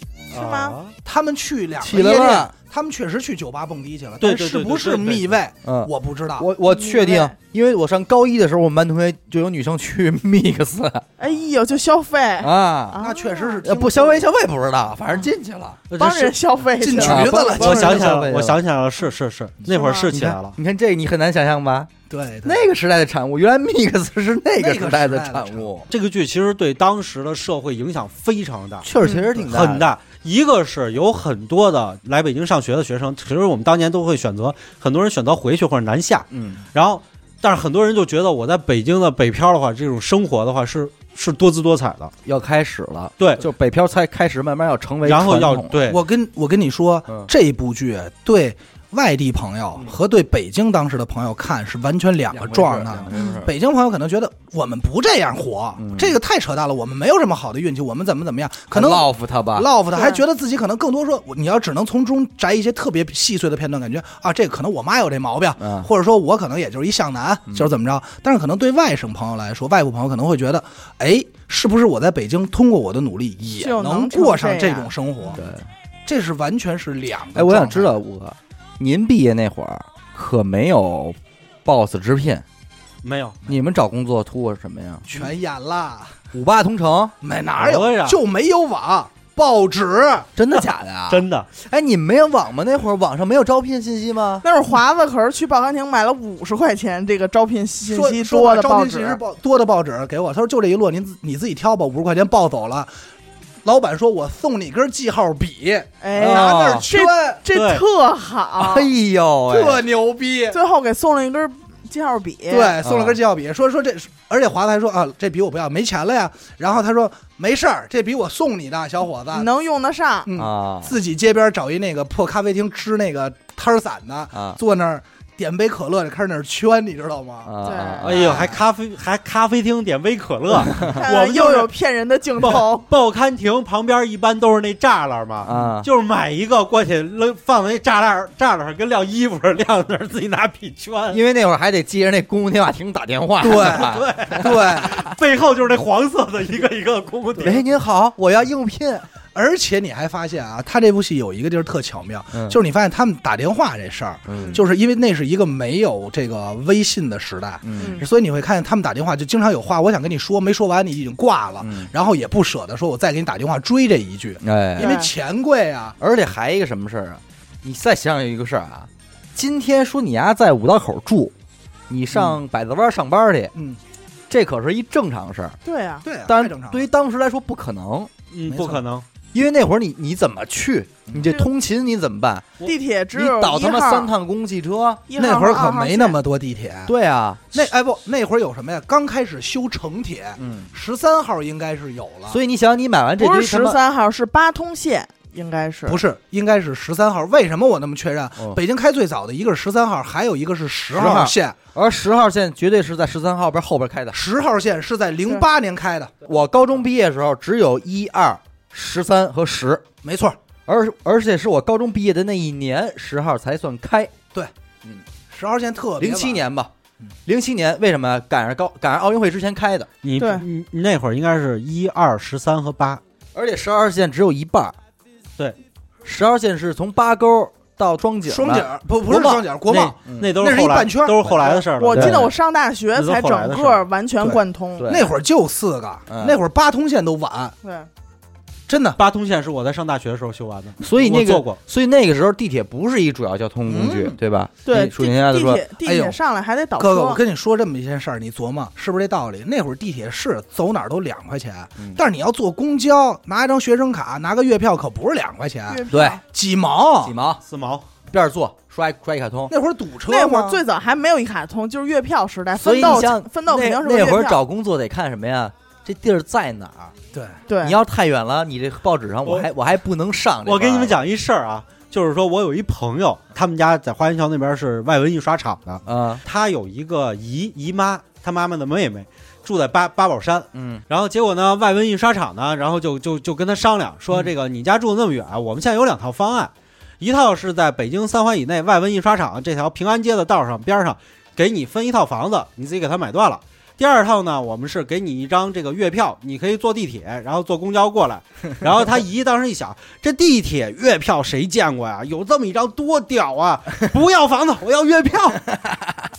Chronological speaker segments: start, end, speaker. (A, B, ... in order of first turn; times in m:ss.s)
0:00.3-0:00.8 A
0:00.3-0:00.9 B
0:01.0-0:06.5 C
0:01.8-0:02.5 D
0:04.2-0:05.3 B
0:05.6-0:11.0 D
0:06.6-0:07.3 A
0:11.2-0:13.6 A
0:12.4-0:13.0 D
0:13.0-0:14.3 C
0:13.6-0:15.8 D
0:15.9-0:16.3 B
0:16.0-0:18.0 A
0:16.8-0:18.1 C
0:17.0-0:18.6 D
0:17.6-0:20.6 B
0:19.7-0:20.1 A
0:20.1-0:21.9 D
0:22.1-0:22.6 C
0:22.4-0:25.9 D
0:24.6-0:25.7 C
0:25.9-0:42.1 B
0:28.8-0:29.9 D
0:29.0-0:29.3 A
0:36.3-0:36.6 D
0:42.2-0:45.8 D
0:45.0-0:46.0 B
0:45.9-1:15.4 C
0:52.3-0:53.5 D
0:53.1-0:53.4 A
0:55.8-0:56.2 D
0:58.7-0:59.7 D
0:59.9-1:00.2 A
1:05.6-1:05.9 D
1:13.6-1:14.9 A
1:15.3-1:15.6 D
1:16.0-1:17.9 C
1:17.3-1:22.4 D
1:23.0-1:23.4 B
1:23.4-1:25.2 D
1:25.1-1:26.2 C
1:26.3-1:27.1 D
1:27.2-1:30.3 C
1:27.6-1:28.2 B
1:30.4-1:34.4 D
1:31.1-1:31.5 B
1:34.4-1:39.2 A
1:37.8-1:42.9 C
1:43.6-1:47.4 C
1:46.0-1:48.9 A
1:46.2-1:46.9 D
1:47.5-1:47.8 B
1:48.6-1:49.8 D
1:49.5-1:50.6 C
1:50.5-1:52.8 A
1:52.5-1:59.5 C
1:52.8-1:53.2 D
1:59.3-2:00.3 A
2:00.2-2:07.5 C
2:00.3-2:01.0 D
2:04.3-2:04.6 D
2:07.4-2:08.5 D
2:07.6-2:08.4 A
2:08.0-2:11.7 B
2:10.8-2:12.8 A
2:12.4-2:21.2 B
2:15.4-2:15.9 D
2:21.1-2:24.7 D
2:23.4-2:24.9 C
2:23.7-2:27.6 B
2:27.4-2:29.0 D
2:29.3-2:46.0 C
2:32.3-2:32.6 D
2:34.3-2:34.6 D
2:37.6-2:38.0 D
2:37.8-2:38.0 A
2:41.6-2:41.9 D
2:44.4-2:45.0 D
2:44.8-2:45.1 A
2:46.0-2:51.3 D
2:51.9-2:53.5 D
2:52.1-2:52.4 C
2:53.5-2:53.8 C
2:54.3-2:55.6 D
2:55.6-2:56.0 A
2:56.0-2:56.8 C
2:56.2-2:58.1 D
2:58.3-2:59.0 B
2:58.5-2:58.8 C
2:59.3-3:02.5 D
3:02.6-3:04.1 A
3:03.1-3:05.0 D
3:05.1-3:06.2 A
3:05.2-3:06.9 C
3:06.9-3:07.7 D
3:07.5-3:12.4 C
3:10.4-3:10.7 D
3:12.3-3:13.8 D
3:13.2-3:16.0 A
3:15.9-3:21.6 C
3:20.9-3:24.2 D
3:24.1-3:26.2 C
3:26.2-3:29.8 D
3:30.0-3:30.4 C
3:30.6-3:34.1 D
3:35.3-3:36.4 C
3:36.0-3:36.7 D
3:37.2-3:39.9 D
3:40.0-3:43.0 B
3:40.2-3:40.4 A
3:43.3-3:44.8 D
3:46.0-3:49.4 D
3:48.3-3:51.6 C
3:49.2-3:52.3 B
3:50.0-3:50.4 D
3:51.8-3:54.9 A
3:51.9-3:52.3 D
3:52.9-3:53.8 B
3:54.2-3:57.5 C
3:54.8-3:55.1 D
3:56.1-3:56.4 D
3:57.6-3:57.9 A
3:58.7-3:59.0 C
3:59.0-4:01.6 B
4:00.8-4:05.7 D
4:03.7-4:04.2 C
4:04.6-4:07.2 A
4:05.8-4:06.2 C
4:06.8-4:17.1 C
4:15.7-4:16.2 A
4:15.9-4:16.2 D
4:17.0-4:17.4 D
4:17.5-4:17.8 B
4:18.1-4:19.5 D
4:19.5-4:20.6 C
4:20.1-4:24.4 A
4:22.6-4:26.9 D
4:27.1-4:27.4 C
4:27.5-4:27.8 A
4:27.6-4:31.0 D
4:30.4-5:05.4 B
4:35.8-4:36.2 D
4:40.5-4:40.8 D